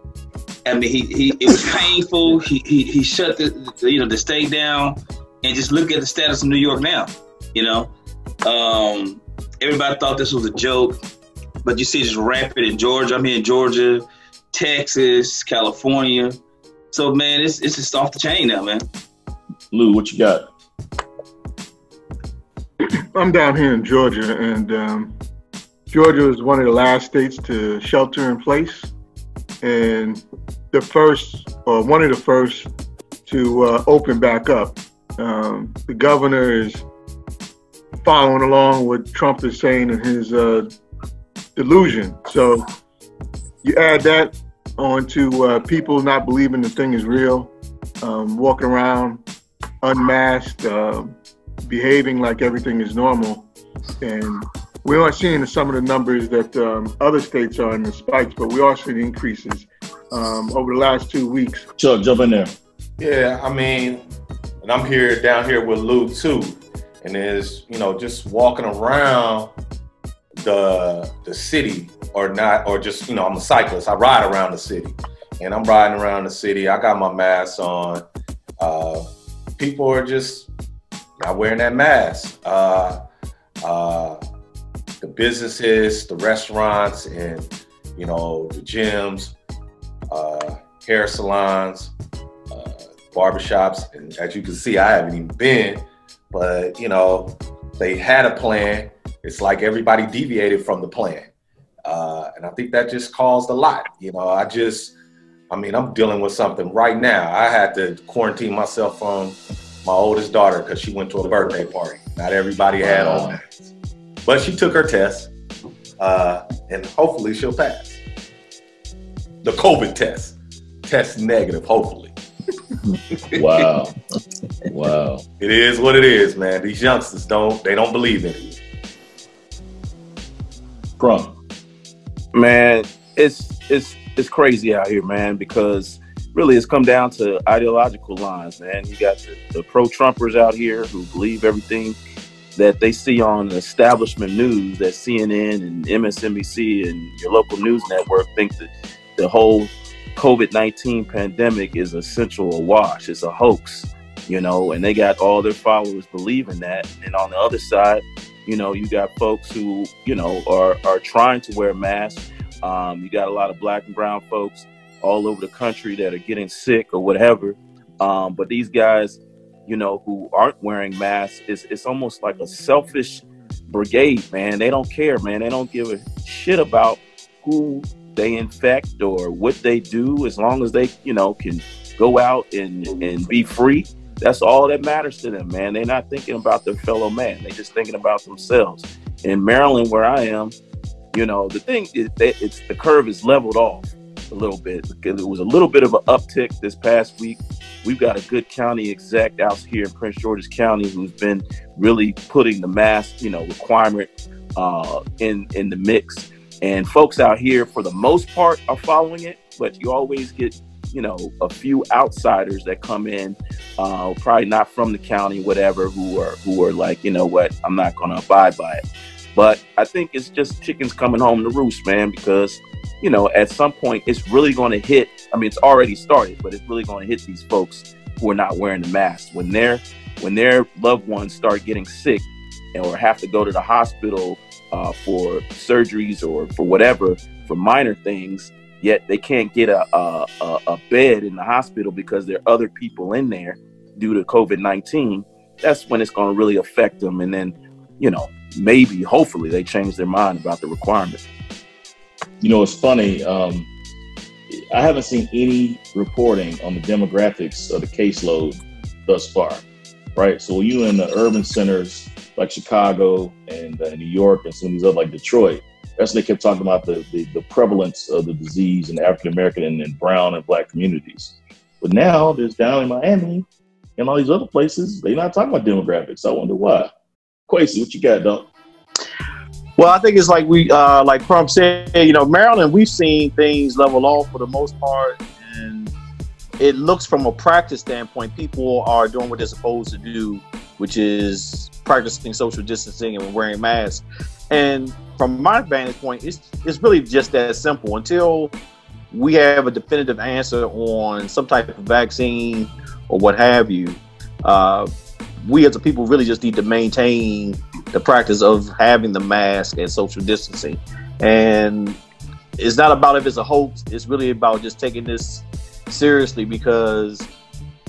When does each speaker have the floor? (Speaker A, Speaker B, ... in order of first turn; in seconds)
Speaker A: 0.7-7.9, 8.4-11.0, 11.6-16.4, 16.9-18.8
Speaker B: 19.7-20.4, 61.8-62.5, 112.8-113.4, 123.3-124.0, 124.7-125.2, 131.0-131.3, 252.4-253.7, 254.5-259.6, 260.1-273.4, 274.0-276.9, 277.5-278.5
Speaker C: 23.1-25.1, 25.9-28.9, 29.6-32.7, 33.2-36.8, 38.0-40.7, 41.5-42.7, 43.6-49.2, 49.8-53.5, 54.0-61.7
Speaker D: 63.0-64.0, 64.6-69.5, 70.4-78.0, 78.6-79.0, 79.6-80.5, 81.2-83.0, 83.6-84.2, 85.0-89.3, 90.1-91.9, 92.5-101.3, 101.8-104.9, 105.5-113.7, 114.2-115.3, 116.0-118.0, 119.4-122.1, 125.4-128.6
Speaker E: 132.3-142.0, 142.6-190.6, 191.1-218.8, 219.3-251.2
Speaker F: 279.8-285.9, 286.6-298.5, 299.1-304.9, 305.4-312.0, 312.6-317.3